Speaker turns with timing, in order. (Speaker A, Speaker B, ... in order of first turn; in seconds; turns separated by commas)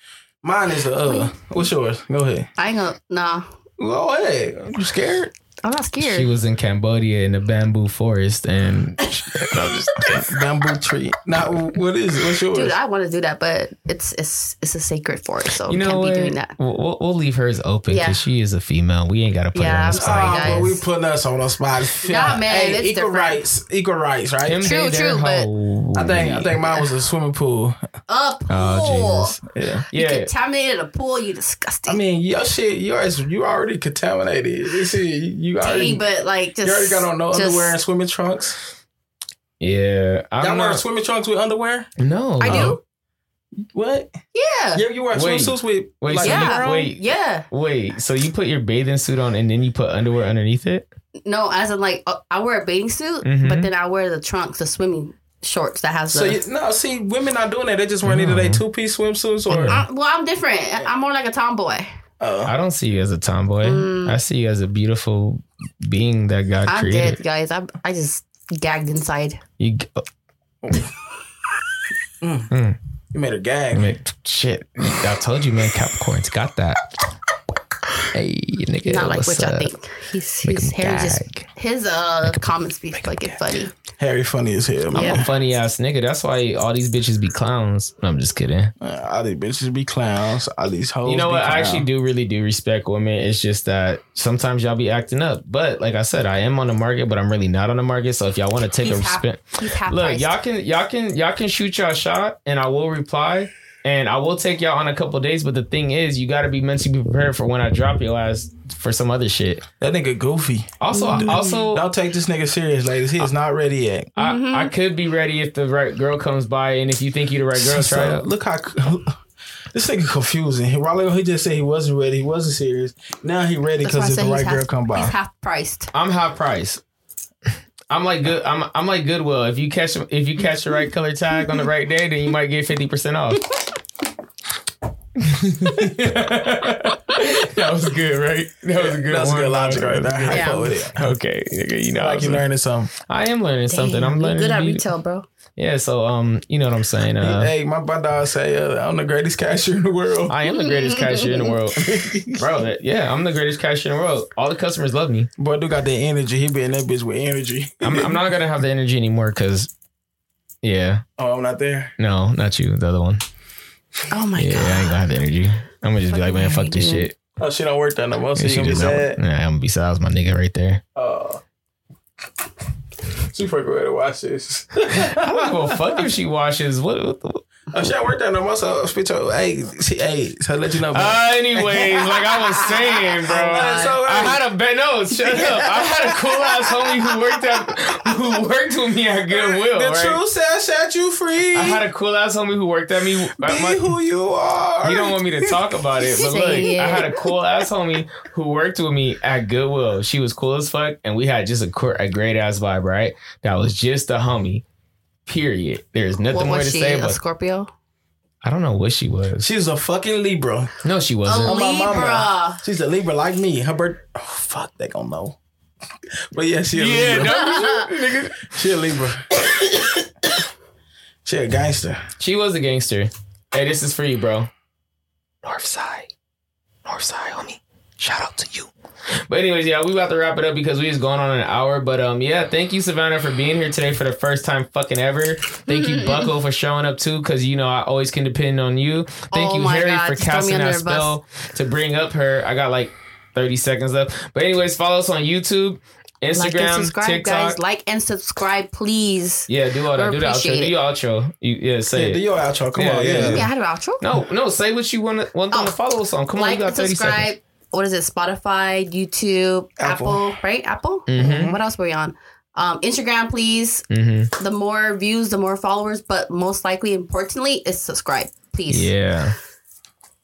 Speaker A: 0.4-2.5, Speaker B: 1.0-1.5, Speaker B: 2.6-3.4, Speaker A: 3.8-5.3, Speaker B: 5.6-6.3, Speaker C: 6.0-10.2, Speaker A: 10.0-12.8, Speaker B: 12.5-16.5, Speaker C: 15.7-20.5, Speaker B: 17.9-18.2, Speaker B: 19.5-20.8, Speaker A: 19.9-24.7, Speaker B: 22.0-23.4, Speaker C: 24.4-26.6, Speaker B: 24.6-25.5, Speaker A: 25.9-27.8, Speaker B: 28.1-29.4, Speaker C: 28.5-29.4, Speaker A: 29.5-29.8, Speaker C: 29.9-30.3, Speaker B: 29.9-32.0, Speaker A: 31.9-36.0, Speaker B: 35.6-37.8, Speaker A: 36.6-38.6, Speaker C: 39.6-40.8, Speaker A: 40.4-41.9, Speaker C: 42.0-42.8, Speaker B: 42.4-42.8, Speaker A: 42.5-42.8, Speaker A: 43.7-44.1, Speaker B: 44.3-44.8, Speaker A: 44.7-46.9, Speaker C: 45.1-50.9, Speaker B: 46.2-47.5, Speaker B: 51.2-56.4, Speaker C: 53.2-53.7, Speaker A: 56.1-59.8, Speaker C: 58.0-58.6, Speaker C: 59.5-59.8, Speaker B: 59.7-61.9, Speaker A: 62.2-62.5, Speaker C: 62.5-67.2, Speaker B: 63.6-64.2, Speaker B: 66.7-69.4, Speaker C: 69.6-70.0, Speaker A: 70.6-70.9, Speaker A: 72.2-72.5, Speaker C: 72.5-72.8, Speaker A: 73.1-73.8, Speaker C: 73.7-76.9, Speaker C: 78.1-79.7, Speaker B: 78.8-83.7, Speaker C: 80.4-81.5, Speaker C: 82.2-83.4, Speaker A: 84.0-85.3, Speaker C: 84.9-88.7, Speaker B: 84.9-85.2, Speaker A: 88.8-91.9, Speaker C: 91.0-109.6, Speaker B: 98.8-100.4, Speaker A: 109.8-114.1, Speaker C: 110.8-111.8, Speaker B: 110.9-111.7, Speaker C: 114.2-118.2, Speaker B: 114.2-114.7, Speaker A: 117.5-119.2, Speaker A: 119.7-125.1, Speaker B: 123.8-125.9, Speaker C: 125.9-126.8, Speaker C: 127.9-133.4, Speaker C: 135.2-142.4, Speaker A: 138.8-141.1, Speaker B: 140.3-140.7, Speaker A: 142.0-142.9, Speaker C: 143.1-144.8, Speaker B: 143.7-145.3, Speaker C: 145.6-147.5, Speaker A: 147.2-150.4, Speaker C: 150.3-155.3, Speaker B: 150.5-151.5, Speaker A: 151.8-152.5, Speaker A: 155.4-158.2, Speaker C: 157.8-159.7, Speaker C: 160.6-161.0, Speaker A: 161.2-161.9, Speaker C: 162.0-163.2, Speaker B: 164.1-165.0, Speaker C: 164.3-167.2, Speaker B: 166.1-167.1, Speaker A: 167.4-169.2, Speaker C: 168.3-170.8, Speaker A: 170.9-171.4, Speaker A: 173.2-176.0, Speaker C: 174.9-177.4, Speaker A: 177.7-182.8, Speaker C: 180.9-190.2, Speaker A: 183.3-184.4, Speaker B: 183.3-183.9, Speaker A: 185.1-187.4, Speaker A: 189.3-191.8, Speaker C: 191.5-193.9, Speaker A: 193.3-195.6, Speaker C: 194.8-204.6, Speaker B: 196.0-197.2, Speaker C: 205.2-207.2, Speaker B: 206.3-207.7, Speaker C: 208.4-209.5, Speaker A: 209.4-210.7, Speaker C: 210.8-211.5, Speaker B: 211.2-212.6, Speaker A: 211.4-215.4, Speaker A: 216.3-217.4, Speaker C: 216.7-218.5, Speaker B: 217.1-217.9, Speaker A: 218.4-219.3, Speaker A: 221.2-222.0, Speaker C: 222.2-224.5, Speaker C: 225.4-226.1, Speaker C: 226.8-228.7, Speaker C: 229.3-247.6, Speaker B: 235.7-236.3, Speaker B: 239.3-241.1, Speaker B: 246.3-250.7, Speaker C: 249.5-252.2, Speaker A: 251.9-253.5, Speaker C: 252.7-257.3, Speaker B: 253.1-254.0, Speaker B: 256.3-263.8, Speaker A: 259.8-260.2, Speaker C: 261.1-261.5, Speaker A: 261.2-261.5, Speaker C: 263.9-264.3, Speaker B: 264.4-268.9, Speaker C: 268.7-269.4